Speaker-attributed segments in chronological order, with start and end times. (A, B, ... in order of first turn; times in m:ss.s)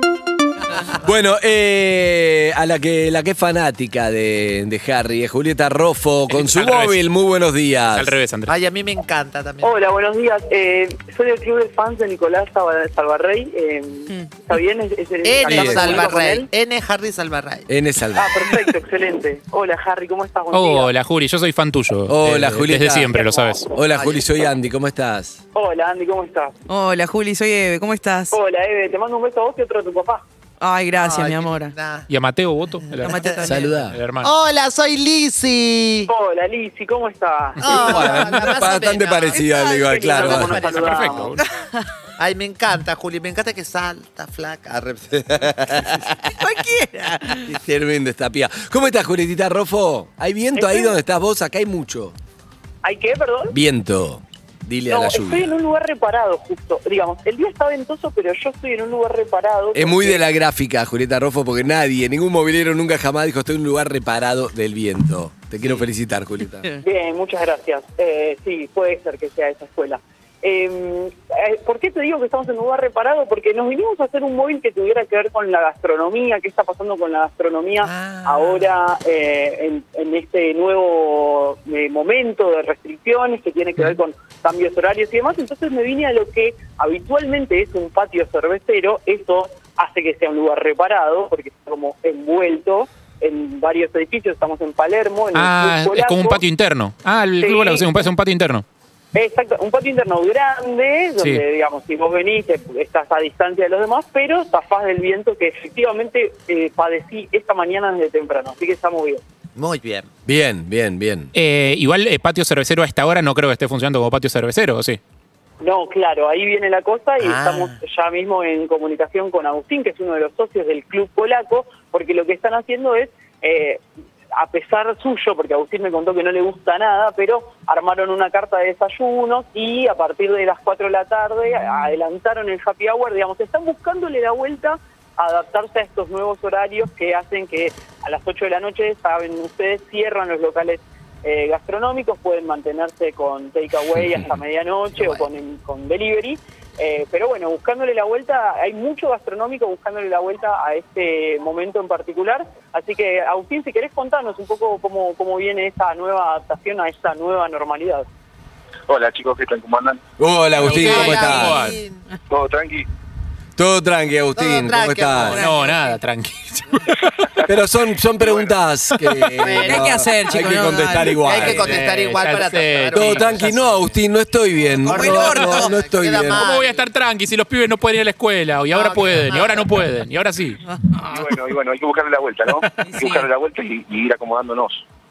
0:01.0-0:08.2 A
0:06.3-0:07.0 B
0:07.9-0:08.6 B
0:08.5-0:09.7 C
0:09.6-0:16.5 D
0:15.2-0:17.7 C
0:15.5-0:16.1 A
0:17.7-0:18.5 A
0:18.2-0:20.9 D
0:20.5-0:23.7 B
0:22.1-0:23.1 A
0:23.1-0:23.6 D
0:23.7-0:25.4 A
0:23.9-0:24.2 C
0:25.5-0:26.6 D
0:26.7-0:28.4 E
0:28.3-0:30.2 D
0:30.6-0:31.8 E
0:31.0-0:32.1 C
0:32.1-0:34.3 B
0:32.9-0:33.6 C
0:33.0-0:33.8 E
0:33.4-0:34.0 A
0:34.2-0:36.1 C
0:36.1-0:38.3 D
0:37.6-0:41.3 C
0:37.7-0:40.6 A
0:39.4-0:40.5 E
0:39.8-0:41.3 D
0:40.6-0:41.4 B
0:41.4-0:41.9 E
0:42.2-0:46.3 C
0:46.2-0:47.5 E
0:47.3-0:52.2 A
0:50.6-0:51.0 D
0:52.8-0:53.6 D
0:53.5-0:55.5 A
0:54.9-1:00.2 D
0:59.7-1:06.7 A
1:06.8-1:36.4 D
1:17.8-1:18.7 C
1:35.3-1:38.6 B
1:37.4-1:37.9 D
1:39.1-1:49.2 D
1:41.2-1:41.4 B
1:49.6-1:50.1 C
1:50.3-1:51.3 A
1:51.4-1:55.0 B
1:55.6-2:03.8 D
1:57.2-1:57.8 C
2:04.4-2:38.1 D
2:38.9-2:40.0 F
2:40.2-2:41.7 A
2:40.6-2:41.8 B
2:40.6-2:42.0 C
2:42.3-2:42.9 F
2:43.6-2:45.4 A
2:44.4-2:45.6 C
2:45.2-2:45.8 E
2:45.3-2:47.1 B
2:47.4-2:51.8 A
2:48.2-2:48.6 F
2:49.4-2:50.0 C
2:49.5-2:51.4 E
2:51.1-2:53.9 C
2:51.4-2:53.3 B
2:52.9-2:56.5 A
2:54.8-2:56.9 C
2:54.9-2:55.7 E
2:56.3-3:00.6 B
2:58.7-2:59.7 C
3:01.1-3:04.8 F
3:02.8-3:03.3 E